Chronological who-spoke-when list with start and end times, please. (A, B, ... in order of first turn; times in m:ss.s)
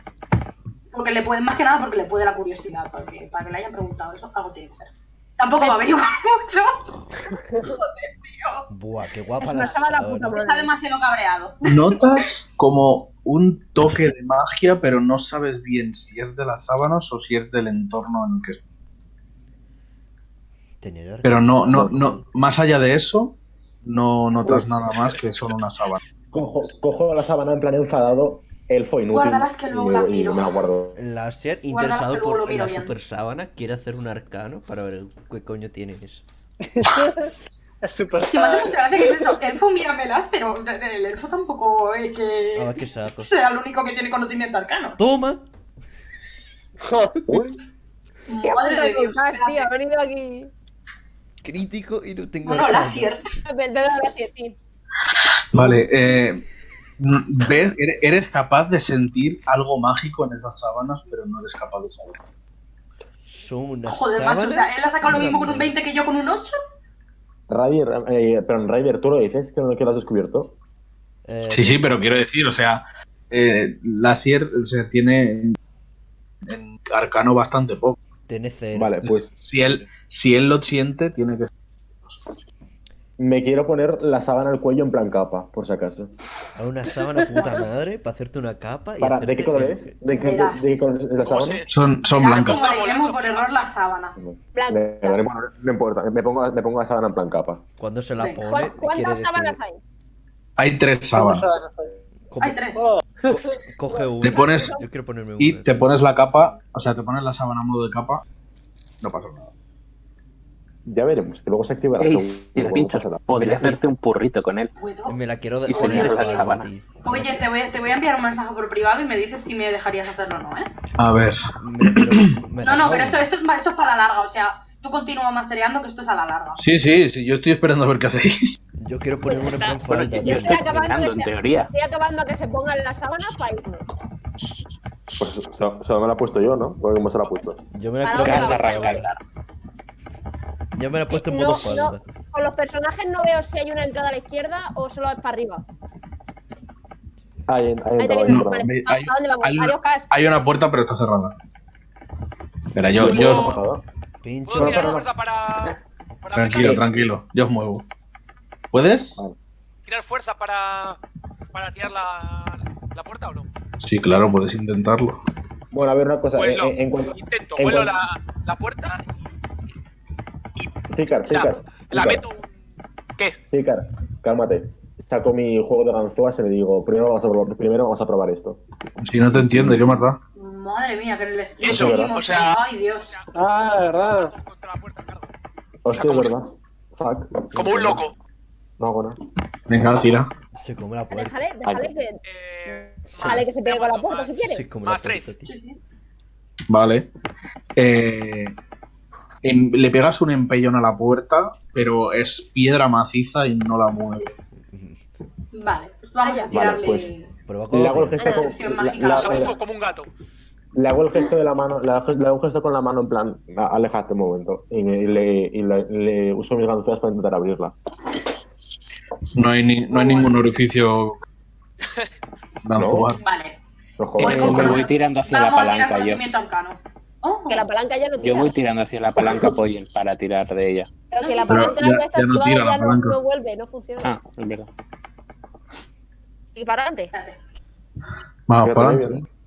0:00.9-0:06.9 A
0:05.6-0:05.9 B
0:07.6-0:08.7 A
0:08.7-0:10.4 C
0:09.4-0:10.7 B
0:09.5-0:12.0 A
0:11.6-0:18.6 D
0:20.8-0:21.5 C
0:21.2-0:26.0 D
0:21.7-0:22.1 E
0:24.4-0:24.8 E
0:26.3-0:31.0 E
0:29.1-0:30.6 A
0:31.0-0:36.2 C
0:31.7-0:32.9 A
0:36.7-0:37.3 F
0:37.8-0:39.4 F
0:38.3-0:45.0 A
0:42.6-0:43.3 C
0:45.0-0:45.4 C
0:46.8-0:47.4 F
0:47.3-0:47.6 E
0:48.3-0:49.7 A
0:48.4-0:50.5 B
0:51.4-0:53.1 C
0:52.4-0:53.2 A
0:53.4-0:54.6 B
0:55.2-0:56.4 D
0:55.5-0:55.9 C
0:57.0-1:02.2 D
1:03.2-1:05.7 C
1:03.9-1:06.5 A
1:07.5-1:10.5 E
1:11.2-1:12.1 C
1:11.5-1:15.6 D
1:16.4-1:18.0 D
1:18.3-1:18.9 C
1:18.7-1:19.3 E
1:19.0-1:21.5 D
1:23.2-1:26.1 E
1:26.6-1:29.9 C
1:29.0-1:31.6 E
1:30.1-1:30.8 A
1:31.2-1:31.6 G
1:31.7-1:32.6 D
1:32.2-1:34.2 A
1:32.2-1:33.7 G
1:34.2-1:37.6 E
1:34.5-1:35.2 B
1:37.8-1:39.6 C
1:38.2-1:38.4 A
1:38.4-1:39.8 B
1:40.6-1:41.5 D
1:41.1-1:42.0 F
1:42.3-1:42.7 C
1:42.4-1:42.9 A
1:42.8-1:43.6 F
1:43.3-1:45.8 C
1:43.9-1:44.8 B
1:44.2-1:44.8 D
1:45.4-1:48.2 D
1:49.0-1:49.5 D
1:50.8-1:53.8 E
1:52.0-1:54.7 H
1:54.8-1:55.2 A
1:55.1-1:57.4 C
1:55.7-1:56.7 H
1:55.7-2:00.7 A
2:01.0-2:02.3 D
2:01.6-2:03.3 C
2:02.6-2:06.6 A
2:06.6-2:08.6 D
2:08.8-2:10.7 C
2:09.2-2:13.8 B
2:09.9-2:11.7 H
2:15.2-2:17.6 E
2:17.7-2:19.0 C
2:18.0-2:19.0 B
2:18.2-2:19.2 H
2:20.7-2:22.0 C
2:21.1-2:25.6 B
2:27.5-2:28.7 E
2:28.0-2:30.1 B
2:28.3-2:31.4 D
2:32.7-2:33.6 D
2:32.9-2:33.8 E
2:33.0-2:33.6 G
2:34.2-2:35.0 C
2:34.4-2:36.8 G
2:34.6-2:35.0 E
2:36.3-2:37.9 D
2:38.7-2:39.2 D
2:39.8-2:41.0 G
2:41.5-2:43.5 G
2:43.8-2:45.2 D
2:45.7-2:47.9 E
2:46.3-2:49.0 G
2:50.5-2:52.6 G
2:50.9-2:52.2 E
2:53.5-2:58.6 E
2:59.0-3:00.2 D
2:59.5-2:59.8 E
3:00.4-3:03.2 A
3:01.6-3:03.3 G
3:01.6-3:02.2 E
3:03.3-3:04.3 F
3:04.1-3:05.3 G
3:05.8-3:08.0 E
3:05.9-3:06.3 G
3:07.5-3:08.1 G
3:08.8-3:09.2 E
3:09.7-3:10.3 D
3:10.5-3:11.4 C
3:11.1-3:12.2 B
3:11.6-3:11.9 E
3:12.2-3:15.3 G
3:13.1-3:14.7 B
3:14.4-3:15.5 C
3:15.4-3:15.8 A
3:16.7-3:17.1 D
3:17.8-3:18.5 D
3:19.4-3:24.3 D
3:24.7-3:25.0 C
3:25.5-3:27.3 A
3:26.2-3:26.5 B
3:26.5-3:27.1 E
3:27.5-3:28.4 C
3:27.7-3:29.6 E
3:28.2-3:28.5 B
3:28.2-3:29.6 A
3:29.1-3:30.1 G
3:30.7-3:37.7 E
3:39.3-3:41.2 D
3:39.9-3:40.3 A
3:41.8-3:42.1 G
3:42.6-3:43.2 D
3:42.8-3:43.1 E
3:43.2-3:43.6 A
3:44.0-3:44.8 E
3:44.2-3:46.2 H
3:44.2-3:47.6 A
3:47.5-3:48.6 B
3:48.2-3:50.9 H
3:49.2-3:49.5 D
3:51.1-3:54.1 B
3:51.2-3:51.8 A
3:51.5-3:53.2 D
3:54.0-3:54.7 H
3:56.6-3:57.1 B
3:57.1-3:57.4 A
3:58.5-3:59.2 D
3:58.6-3:59.2 E